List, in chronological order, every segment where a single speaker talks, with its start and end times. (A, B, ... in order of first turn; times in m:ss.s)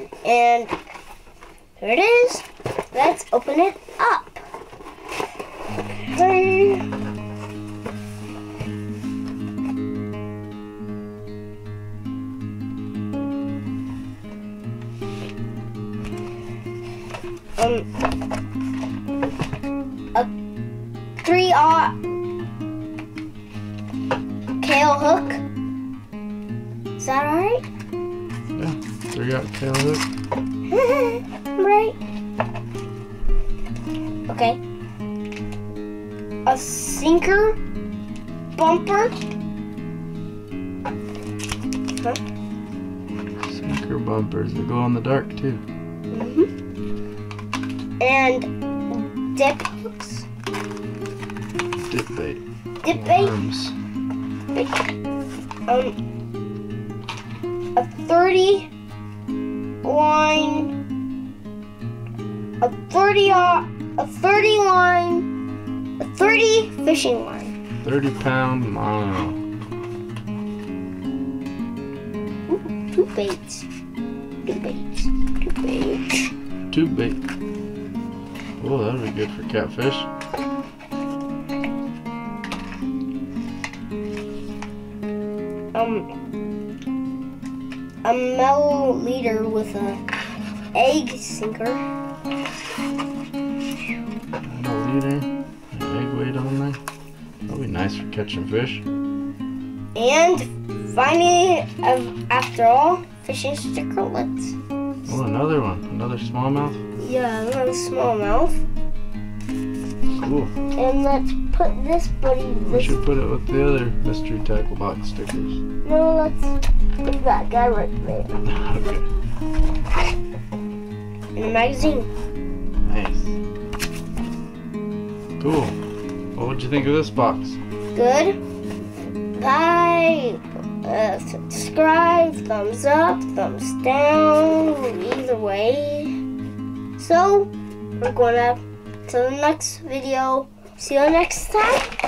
0:00.2-0:00.7 A
0:01.8-0:04.4 A
0:05.9-0:06.9 A
0:17.6-0:17.9 A
0:21.2-0:22.0 A
0:24.6-0:25.4 A
0:27.0-0:27.6 A
0:28.6-0:30.1 B
0:30.7-0:32.0 A
0:34.3-0:34.6 A
0:36.5-0:37.6 A
0:38.6-0:39.2 A
0:43.4-0:45.6 B
0:46.1-0:46.5 A
0:48.0-0:50.3 A
0:51.8-0:53.8 B
0:52.8-0:53.4 A
0:55.7-0:56.0 A
0:57.8-0:58.7 A
0:59.8-1:00.8 A
1:02.6-1:05.3 A
1:06.0-1:07.6 A
1:07.8-1:09.4 B
1:12.5-1:13.7 A
1:14.4-1:16.3 A
1:16.7-1:17.2 B
1:18.6-1:20.1 B
1:25.7-1:26.1 A
1:28.0-1:30.0 A
1:30.8-1:31.8 A
1:34.4-1:36.8 B
1:37.5-1:38.8 B
1:40.0-1:44.6 A
1:45.1-1:46.8 B
1:47.0-1:48.6 A
1:50.2-1:50.5 B
1:50.8-1:53.0 A
1:52.7-1:55.6 B
1:55.8-1:58.4 A
1:58.4-1:59.1 B
2:01.4-2:02.1 A
2:02.9-2:03.4 B
2:05.4-2:05.8 B
2:06.4-2:07.6 B
2:07.9-2:08.4 A
2:09.4-2:16.2 A
2:17.0-2:21.9 A